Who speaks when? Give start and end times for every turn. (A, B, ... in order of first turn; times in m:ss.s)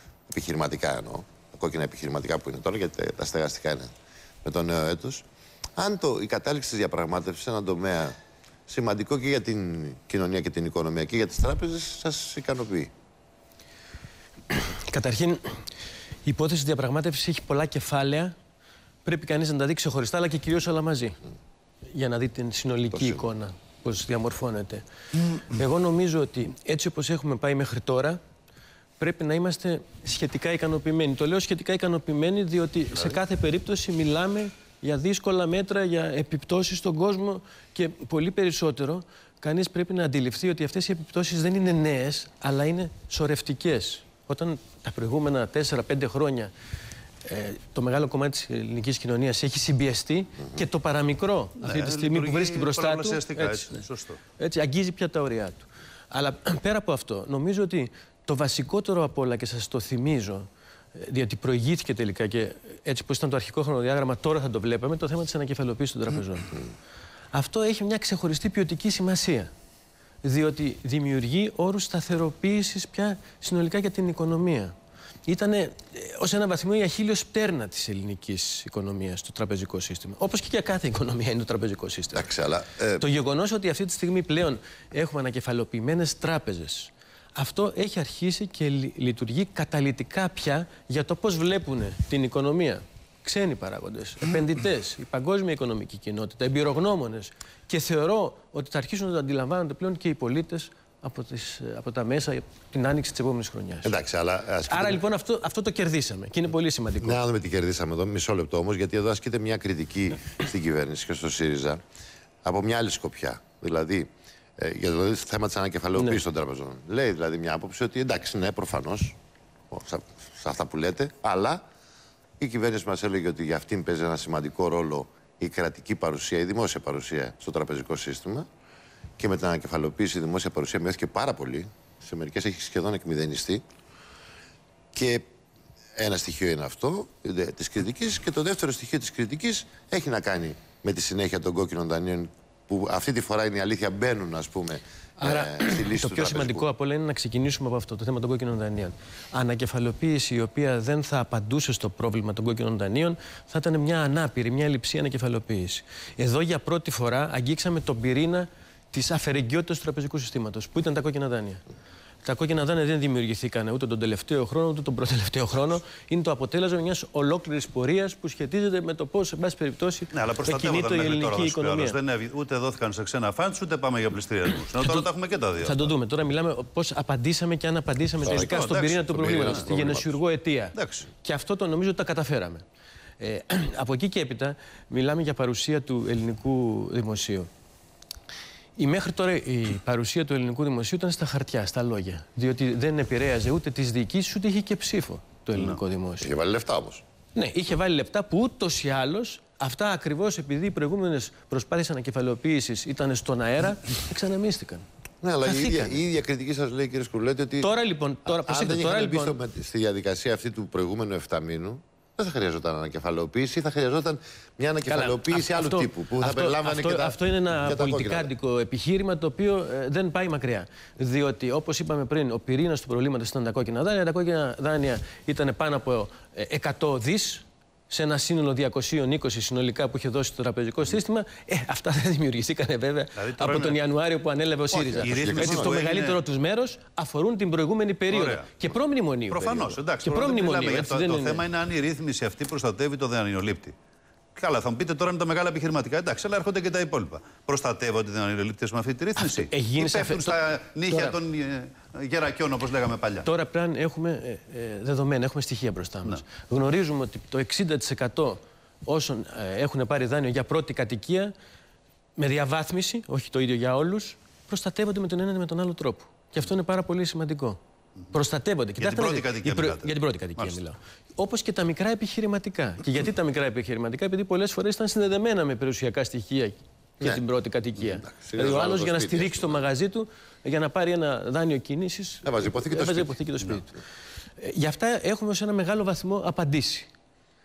0:00.3-0:03.9 A
0:04.4-0:05.2 A
0:05.8-0:08.2 A
0:08.7-0:12.9 A
0:14.5-0:15.6 B
0:16.2-0:18.4 B
0:19.0-0:21.2 B
0:21.9-0:28.2 B
0:23.0-0:23.2 A
0:29.0-0:46.5 B
0:47.2-0:53.8 B
0:51.6-0:54.2 C
0:54.4-1:06.6 B
1:07.3-1:09.5 B
1:10.2-1:14.7 B
1:15.3-1:22.3 B
1:22.2-1:23.0 A
1:23.0-1:44.0 B
1:43.8-1:45.0 A
1:44.7-1:47.2 B
1:47.0-1:51.8 A
1:52.4-1:59.2 A
1:56.0-1:56.2 B
1:59.7-2:01.6 A
2:02.4-2:08.5 A
2:09.2-2:13.6 A
2:14.9-2:15.3 A
2:16.0-2:26.7 A
2:25.2-2:41.6 B
2:42.2-2:52.0 B
2:50.1-2:55.9 C
2:54.8-2:55.1 B
2:55.6-3:02.6 B
2:58.2-3:00.2 A
2:58.3-2:59.7 C
3:00.8-3:01.1 C
3:03.2-3:07.5 B
3:08.8-3:16.3 B
3:16.2-3:17.0 A
3:17.3-3:24.8 B
3:25.2-3:27.7 A
3:25.5-3:26.0 B
3:27.6-3:29.4 B
3:28.3-3:38.3 A
3:34.9-4:01.5 B
3:53.2-3:53.8 C
3:54.7-3:56.2 C
3:55.1-3:55.7 A
3:58.1-3:58.5 C
3:59.3-4:03.7 C
4:04.4-4:13.3 C
4:09.2-4:11.2 B
4:13.2-4:21.3 B
4:22.2-4:27.6 B
4:28.1-4:43.8 B
4:28.8-4:30.6 C
4:37.8-4:39.7 A
4:42.2-4:43.2 A
4:44.4-4:46.9 B